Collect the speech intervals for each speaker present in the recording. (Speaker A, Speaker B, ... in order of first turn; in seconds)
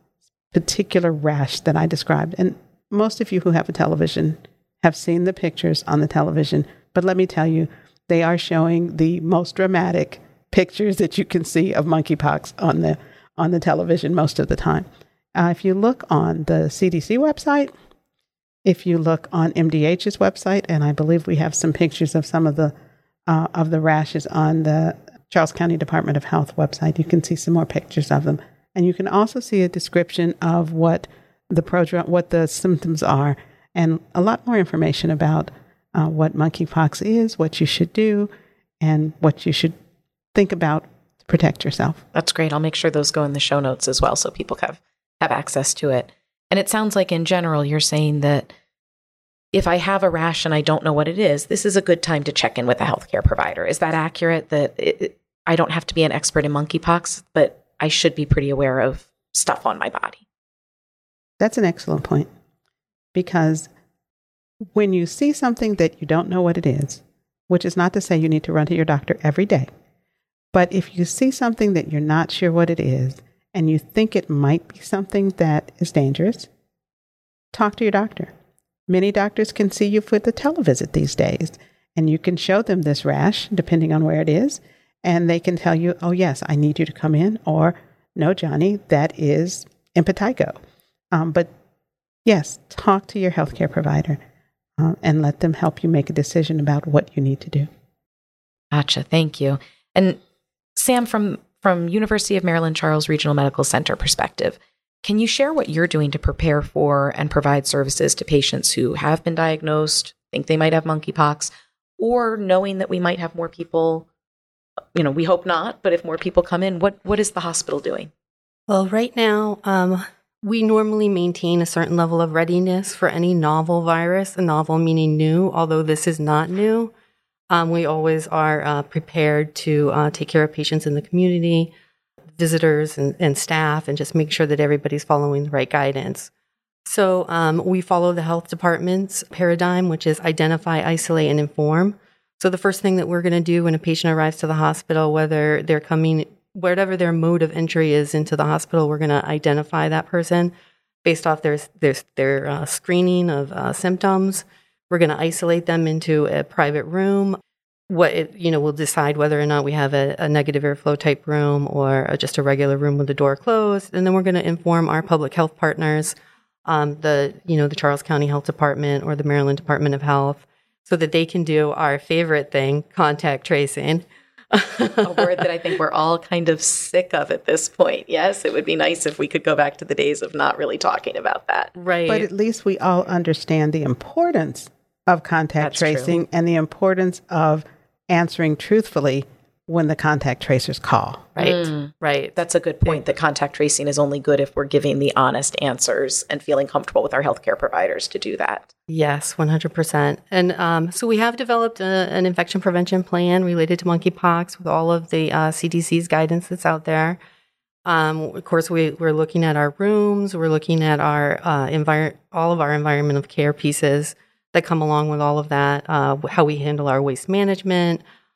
Speaker A: 0.5-17.7, 18.6-22.7, 23.3-38.3, 38.8-39.7, 40.3-42.0, 61.4-62.3, 63.1-63.7, 64.8-69.7, 70.5-76.5, 77.5-78.3, 78.9-90.6, 91.1-91.5, 92.2-94.2, 94.8-97.7, 182.1-191.4
Speaker B: 42.1-48.5, 49.5-60.2, 98.7-100.2, 100.8-114.0, 115.0-118.1, 175.0-181.8, 185.6-186.2, 191.5-198.7
Speaker C: 118.7-126.9, 127.5-131.7, 132.4-136.3, 136.9-150.5, 151.0-157.4, 157.9-166.1, 166.7-175.2, 181.8-182.2, 191.4-192.3, 198.9-207.2, 207.9-218.0